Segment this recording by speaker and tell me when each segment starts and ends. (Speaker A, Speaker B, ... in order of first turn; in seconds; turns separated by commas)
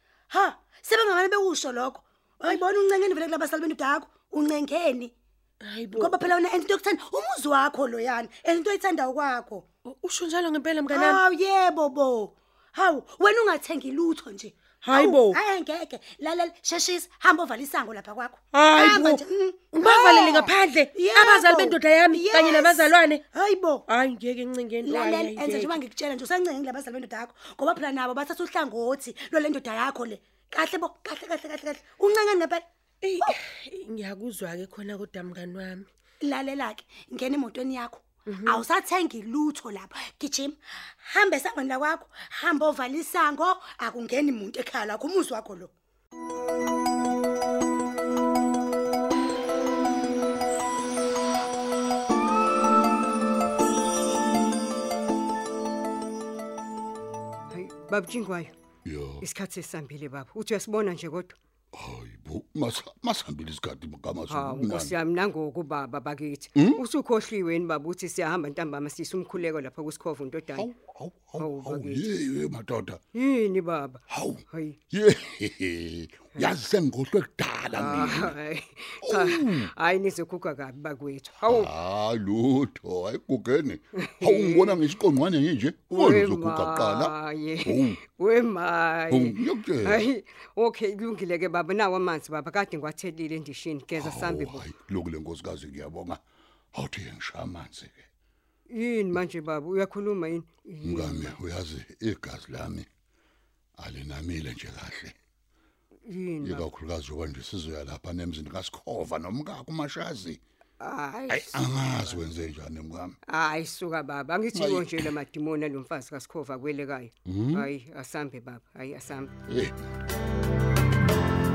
Speaker A: 0.3-5.1, Speaker B: 5.6-6.2, Speaker A: 6.0-9.7, Speaker B: 9.8-11.2, Speaker A: 10.9-23.8, Speaker B: 14.8-15.4, Speaker B: 18.5-23.2, Speaker B: 23.9-25.7, Speaker A: 24.8-32.6, Speaker B: 33.0-35.9, Speaker A: 36.2-45.7, Speaker B: 38.3-38.6, Speaker C: 57.5-58.5, Speaker D: 58.8-59.2, Speaker C: 59.2-61.4, Speaker D: 61.7-64.9, Speaker C: 64.3-70.7, Speaker D: 66.5-66.8, Speaker D: 70.5-73.0, Speaker C: 71.4-72.0, Speaker C: 73.1-74.8, Speaker D: 74.1-78.3, Speaker C: 77.8-81.7, Speaker D: 79.0-79.7, Speaker D: 81.5-88.0, Speaker C: 84.1-84.8, Speaker C: 85.9-94.7, Speaker D: 89.1-90.0, Speaker D: 94.0-96.2, Speaker D: 96.7-98.1, Speaker C: 98.7-101.3, Speaker D: 100.8-102.9, Speaker D: 103.8-105.2, Speaker C: 106.1-106.7, Speaker D: 106.4-110.4, Speaker C: 110.8-112.2, Speaker D: 111.3-113.2, Speaker C: 113.3-119.3, Speaker D: 114.5-115.1, Speaker D: 117.2-117.7, Speaker D: 119.5-119.7